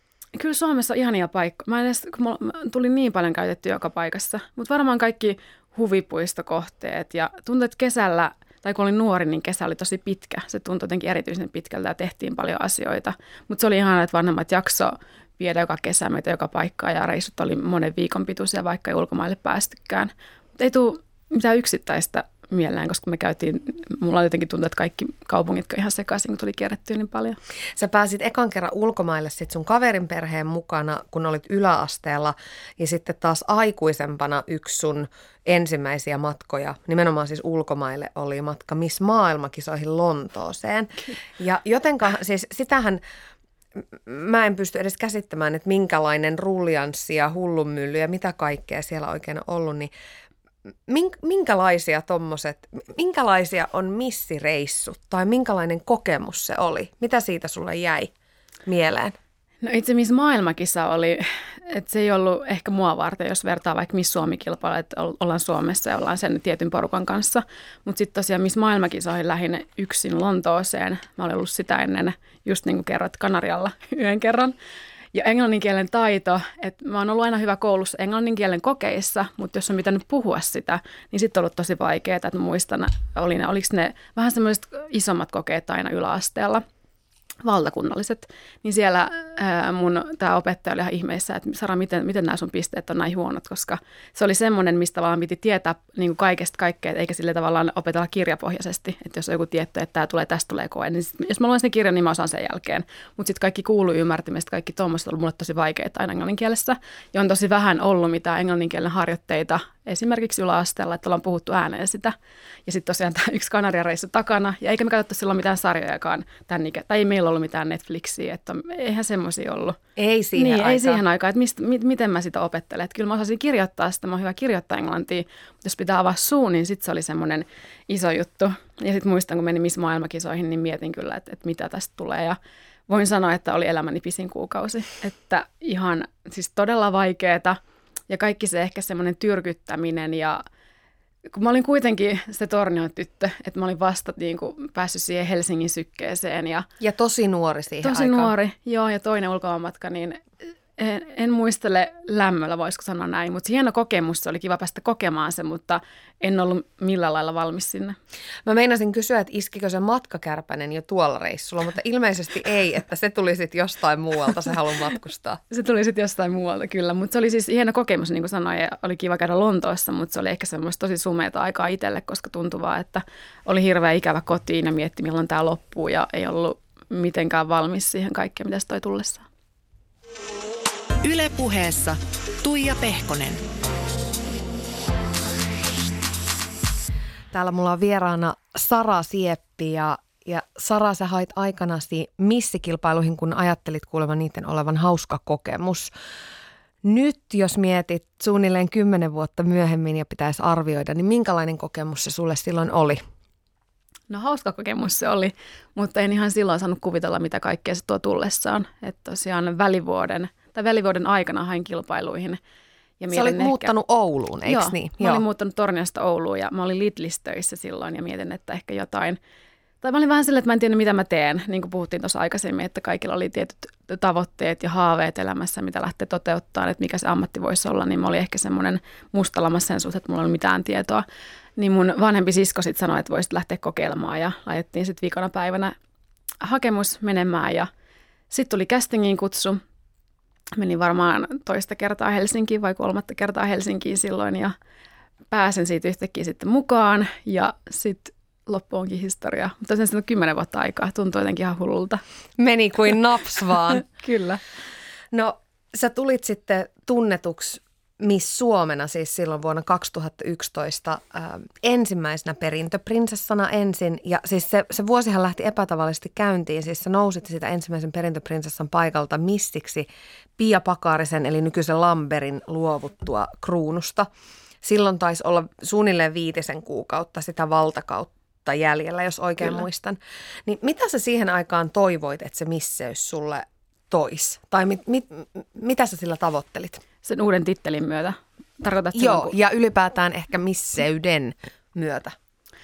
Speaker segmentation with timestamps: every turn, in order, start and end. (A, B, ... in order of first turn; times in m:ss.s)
0:00.4-0:27.4 A
0:27.8-0:43.0 B
0:43.8-0:49.9 B
0:50.9-0:58.1 B
0:58.6-0:59.2 B
0:59.6-1:14.5 A
1:15.1-1:26.6 A
1:27.4-1:52.1 A
1:52.6-1:59.8 A
2:00.0-2:01.0 B
2:00.4-2:12.4 A
2:12.9-2:17.6 A
2:18.1-2:20.4 A
2:21.3-2:26.7 A
2:26.8-2:28.3 B
2:27.8-2:30.2 A
2:30.8-2:38.0 A
2:38.4-2:45.4 B
2:45.5-2:59.2 A
3:01.0-3:03.4 C
3:07.3-3:15.9 B
3:16.8-3:23.0 B
3:24.1-3:32.4 A
3:33.0-3:33.7 A
3:33.1-3:35.2 B
3:34.4-3:39.2 A
3:39.8-3:51.0 A
3:51.6-3:55.7 A
3:56.4-3:57.7 A
3:58.3-3:59.6 A
4:00.6-4:04.5 A
4:05.3-4:12.0 A
4:12.4-4:13.8 B
4:13.8-4:14.4 A
4:15.1-4:34.1 B
4:34.6-4:46.8 B
4:47.0-4:49.3 A
4:48.9-4:52.2 B